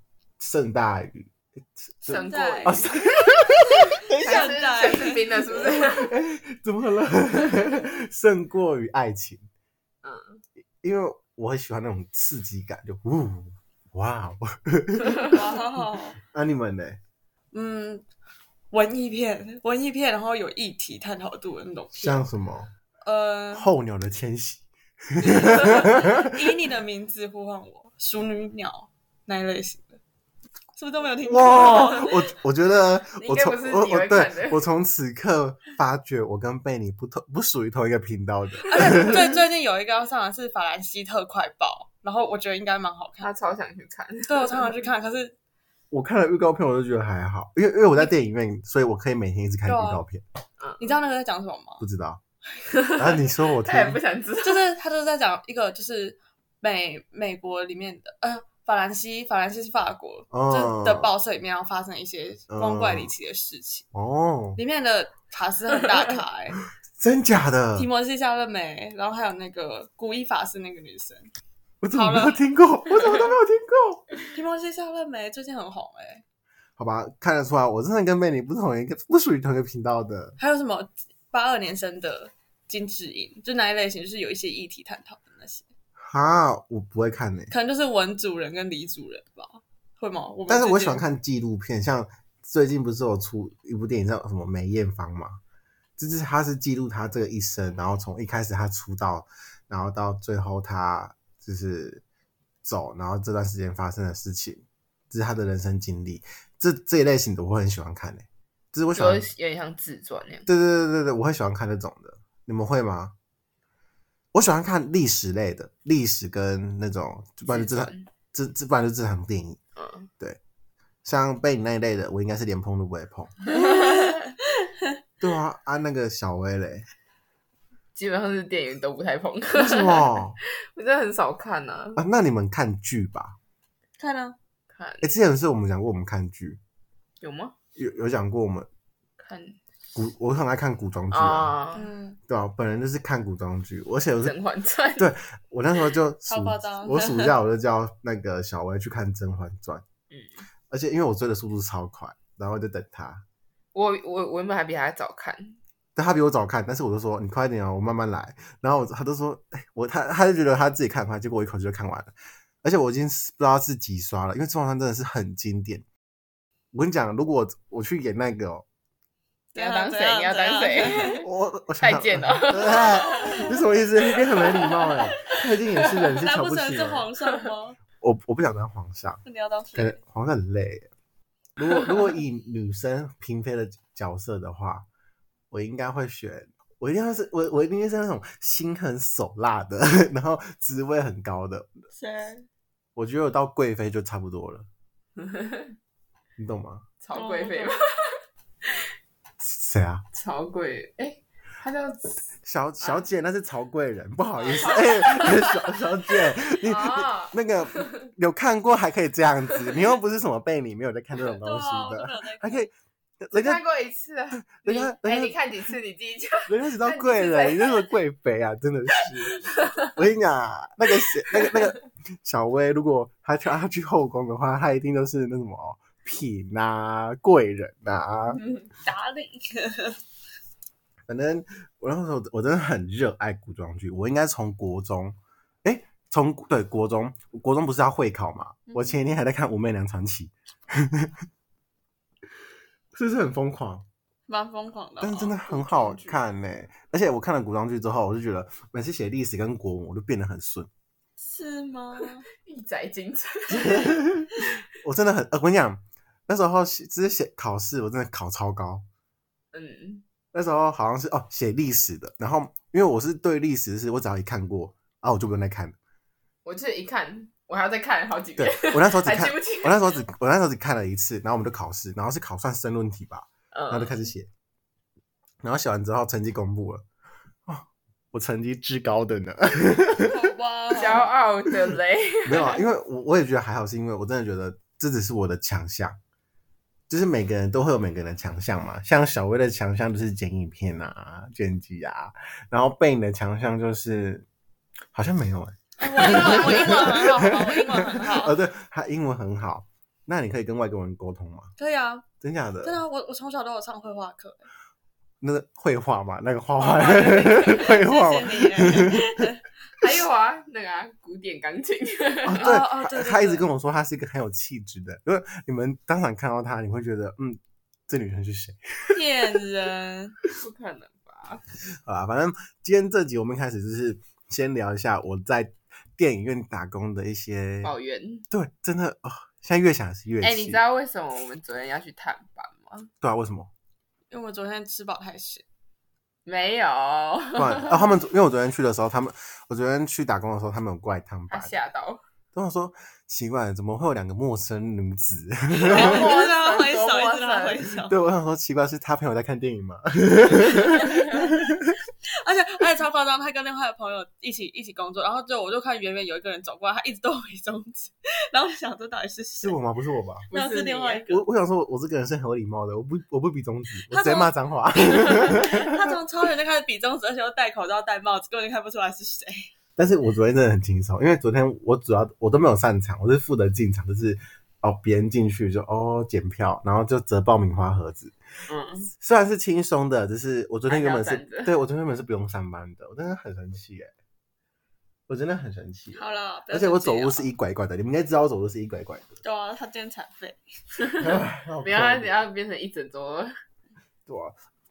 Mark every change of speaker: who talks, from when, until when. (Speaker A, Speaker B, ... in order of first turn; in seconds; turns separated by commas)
Speaker A: 0.4-4.5, Speaker B: 2.0-3.1, Speaker C: 2.1-2.9, Speaker C: 4.1-5.3, Speaker B: 4.2-6.1, Speaker A: 5.5-9.4, Speaker B: 10.0-10.4, Speaker A: 10.8-15.4, Speaker B: 15.0-15.3, Speaker C: 15.3-16.2, Speaker A: 16.2-17.0, Speaker C: 17.5-18.0, Speaker C: 18.7-22.2, Speaker A: 21.9-22.7, Speaker C: 23.0-23.7, Speaker A: 23.5-26.4, Speaker C: 25.4-30.0, Speaker C: 30.8-32.2, Speaker A: 31.2-39.2, Speaker B: 33.2-34.6, Speaker C: 38.7-43.3, Speaker B: 38.9-39.2, Speaker B: 43.2-44.8, Speaker C: 44.2-45.3, Speaker A: 45.9-50.2, Speaker C: 49.6-50.0, Speaker B: 50.6-50.9, Speaker C: 50.8-51.8, Speaker A: 51.8-52.2, Speaker B: 52.7-54.6, Speaker A: 52.9-54.0, Speaker C: 54.4-63.9, Speaker A: 60.3-61.1, Speaker A: 62.5-63.1, Speaker A: 63.9-64.6, Speaker C: 64.6-66.6, Speaker A: 67.0-67.9, Speaker C: 67.8-71.3, Speaker A: 71.8-74.1, Speaker C: 71.9-72.4, Speaker C: 74.2-76.2, Speaker A: 76.8-80.3, Speaker C: 80.4-85.7, Speaker A: 86.0-87.5, Speaker C: 87.5-91.0, Speaker A: 90.5-95.4, Speaker A: 96.0-102.0, Speaker A: 102.6-109.3, Speaker B: 108.9-110.5, Speaker A: 110.5-113.1, Speaker A: 114.3-119.6, Speaker B: 117.5-118.1, Speaker B: 119.8-120.1, Speaker A: 121.0-123.7, Speaker B: 123.5-124.1, Speaker C: 123.5-124.3, Speaker A: 125.2-126.9, Speaker B: 127.9-132.0, Speaker A: 129.5-130.4, Speaker A: 131.9-133.3, Speaker C: 134.0-134.3, Speaker B: 134.7-135.1, Speaker A: 135.0-136.6, Speaker B: 137.2-137.5, Speaker A: 137.8-138.7, Speaker B: 139.2-139.6, Speaker A: 139.9-141.6, Speaker B: 141.1-141.8, Speaker C: 141.7-142.2, Speaker A: 142.3-144.3, Speaker B: 144.2-145.1, Speaker A: 145.0-149.8, Speaker C: 146.3-147.3, Speaker B: 150.1-150.4, Speaker A: 150.7-153.2, Speaker B: 153.7-155.6, Speaker A: 155.9-165.8, Speaker A: 166.7-168.7, Speaker C: 169.5-171.2, Speaker B: 169.5-171.3, Speaker A: 171.2-177.1, Speaker B: 171.8-173.5, Speaker C: 173.1-173.5, Speaker B: 174.1-174.9, Speaker C: 176.2-177.8, Speaker A: 178.0-179.2, Speaker C: 179.2-180.0, Speaker A: 179.7-180.9, Speaker A: 181.6-184.8, Speaker A: 185.5-191.7, Speaker C: 191.9-192.5, Speaker A: 192.9-194.7, Speaker B: 195.2-195.7, Speaker A: 196.4-196.8, Speaker B: 197.0-198.2, Speaker C: 197.1-197.8, Speaker A: 199.4-200.0, Speaker B: 200.1-202.2, Speaker A: 202.4-213.6, Speaker B: 202.8-203.1, Speaker B: 204.4-208.0, Speaker C: 211.2-212.7, Speaker B: 213.3-217.9, Speaker A: 214.4-215.4, Speaker A: 216.5-228.4, Speaker B: 219.3-219.9, Speaker B: 221.3-221.6, Speaker C: 228.8-230.0, Speaker A: 231.1-241.1, Speaker A: 242.9-243.8, Speaker C: 244.3-246.2, Speaker A: 245.0-250.7, Speaker C: 251.2-252.3, Speaker B: 252.3-254.0, Speaker A: 253.5-258.8, Speaker B: 259.5-260.0, Speaker A: 260.3-265.8, Speaker B: 266.4-270.0, Speaker A: 268.4-274.3, Speaker B: 273.5-274.1, Speaker A: 275.4-276.8, Speaker A: 277.5-280.1, Speaker C: 280.0-281.1, Speaker B: 280.7-282.6, Speaker A: 282.2-286.0, Speaker A: 286.9-294.2, Speaker A: 294.9-301.5, Speaker C: 295.8-298.4, Speaker C: 301.6-302.1, Speaker A: 302.2-302.8, Speaker C: 302.6-304.4, Speaker A: 305.2-309.3, Speaker B: 306.6-307.8, Speaker C: 307.4-309.4, Speaker B: 309.8-312.5, Speaker A: 312.2-319.0, Speaker C: 312.4-313.4, Speaker C: 318.9-320.1, Speaker B: 320.4-321.4, Speaker A: 321.8-327.7, Speaker B: 327.6-328.2, Speaker A: 328.3-330.6, Speaker B: 330.2-332.9, Speaker A: 333.0-333.5, Speaker C: 334.1-335.4, Speaker B: 336.2-337.8, Speaker A: 337.4-341.5, Speaker B: 341.3-342.0, Speaker A: 342.3-346.0, Speaker B: 345.5-347.8, Speaker C: 345.7-347.9, Speaker A: 347.9-351.8, Speaker B: 350.7-351.3, Speaker C: 352.1-359.6, Speaker A: 359.4-360.3, Speaker B: 360.3-361.1, Speaker C: 360.3-361.2, Speaker A: 361.1-365.8, Speaker C: 363.9-369.5, Speaker A: 369.8-378.1, Speaker B: 378.5-378.9, Speaker A: 379.0-383.9, Speaker B: 380.7-381.5, Speaker A: 385.1-389.1, Speaker C: 385.9-387.3, Speaker C: 389.2-390.4, Speaker B: 390.8-393.3, Speaker A: 391.0-392.1, Speaker A: 394.1-394.3